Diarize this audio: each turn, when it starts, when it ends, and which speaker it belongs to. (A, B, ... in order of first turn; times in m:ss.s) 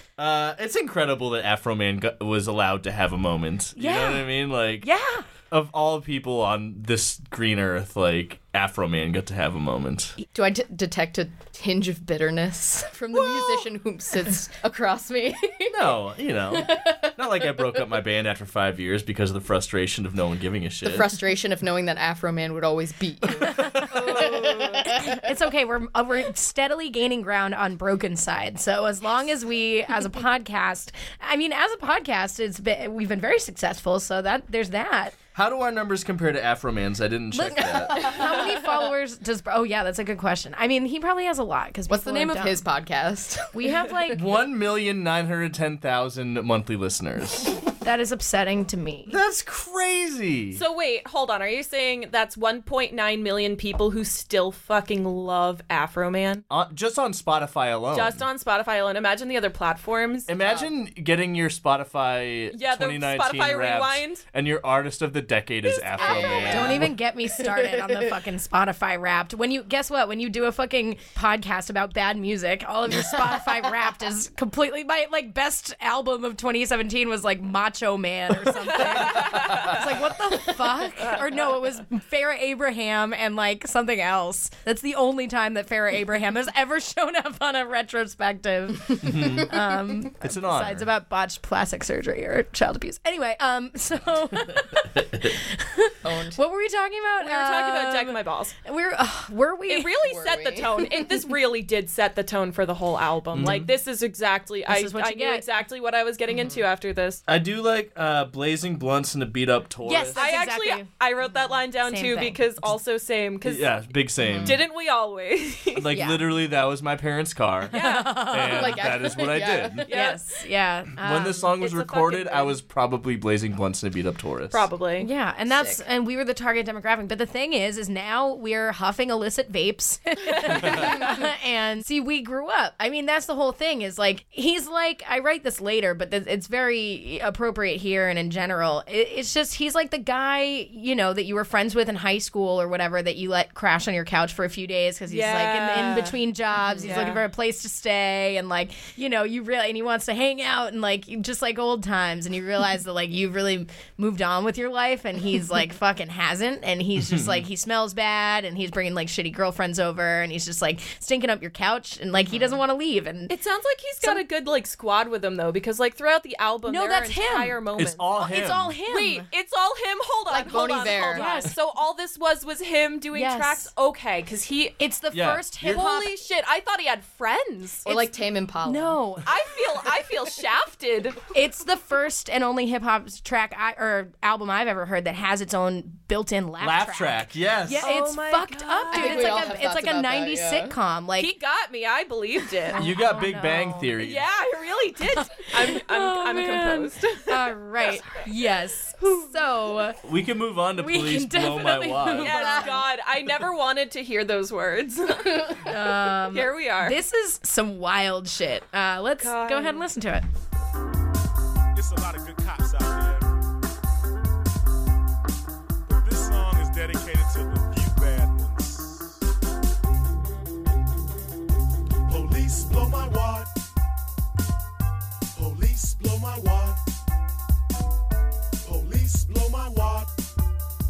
0:00.2-0:04.9 A
0:03.8-0:04.3 B
0:04.8-0:05.3 B
0:05.4-0:10.2 A
0:10.3-0:17.8 C
0:15.7-0:21.1 A
0:20.8-0:25.2 C
0:23.9-0:24.9 D
0:24.9-0:35.2 B
0:35.4-0:38.1 A
0:37.3-0:42.6 B
0:41.9-0:44.0 C
0:43.5-0:44.2 B
0:44.1-0:47.5 A
0:47.8-0:49.2 B
0:49.1-0:50.6 A
0:50.5-0:56.4 D
0:56.5-0:58.2 A
0:57.9-1:00.3 D
1:00.3-1:06.9 A
1:00.4-1:00.7 C
1:02.5-1:04.2 D
1:05.7-1:06.9 C
1:06.1-1:06.4 D
1:06.3-1:40.0 B
1:07.5-1:08.0 C
1:18.8-1:19.8 D
1:29.0-1:29.5 A
1:30.2-1:30.9 A
1:36.0-1:36.4 C
1:37.2-1:38.6 D
1:39.7-1:47.2 D
1:40.0-1:40.9 C
1:43.3-1:43.7 A
1:44.7-1:45.4 B
1:46.3-1:46.6 C
1:47.3-1:50.2 A
1:49.8-1:50.9 B
1:50.2-1:53.7 D
1:51.8-1:52.5 B
1:53.4-1:54.6 A
1:54.2-1:54.6 C
1:54.4-1:56.0 D
1:55.8-1:59.9 A
1:55.9-1:56.2 B
1:57.7-1:58.6 D
1:57.7-1:58.9 B
1:58.3-1:59.8 C
1:59.9-2:00.2 D
1:59.9-2:01.6 B
2:01.0-2:04.6 A
2:01.6-2:02.6 D
2:04.5-2:05.1 D
2:05.0-2:43.4 B
2:05.5-2:05.8 C
2:25.1-2:26.2 D
2:26.8-2:27.2 D
2:37.0-2:37.4 A
2:43.3-2:54.8 D
2:46.7-2:47.6 B
2:47.8-2:48.8 A
2:48.2-2:49.3 B
2:50.3-2:51.5 C
2:51.1-2:51.6 B
2:53.1-2:53.7 B
2:54.8-2:56.1 B
2:55.1-2:55.9 A
2:55.6-2:58.0 D
2:57.8-2:59.0 C
2:58.6-2:59.3 B
2:59.2-3:01.2 D
3:01.3-3:11.3 B
3:06.6-3:08.0 A
3:07.7-3:09.6 D
3:08.9-3:10.7 C
3:11.2-3:12.9 D
3:12.8-3:13.9 B
3:12.8-3:14.2 A
3:14.0-3:17.5 D
3:15.2-3:20.0 B
3:20.0-3:22.7 A
3:20.8-3:22.8 B
3:22.2-3:27.0 D
3:25.5-3:30.3 B
3:29.2-3:29.8 D
3:31.8-3:33.3 E
3:35.9-3:39.1 E
3:42.1-3:43.5 E
3:45.4-3:46.8 E
3:48.6-3:50.1 E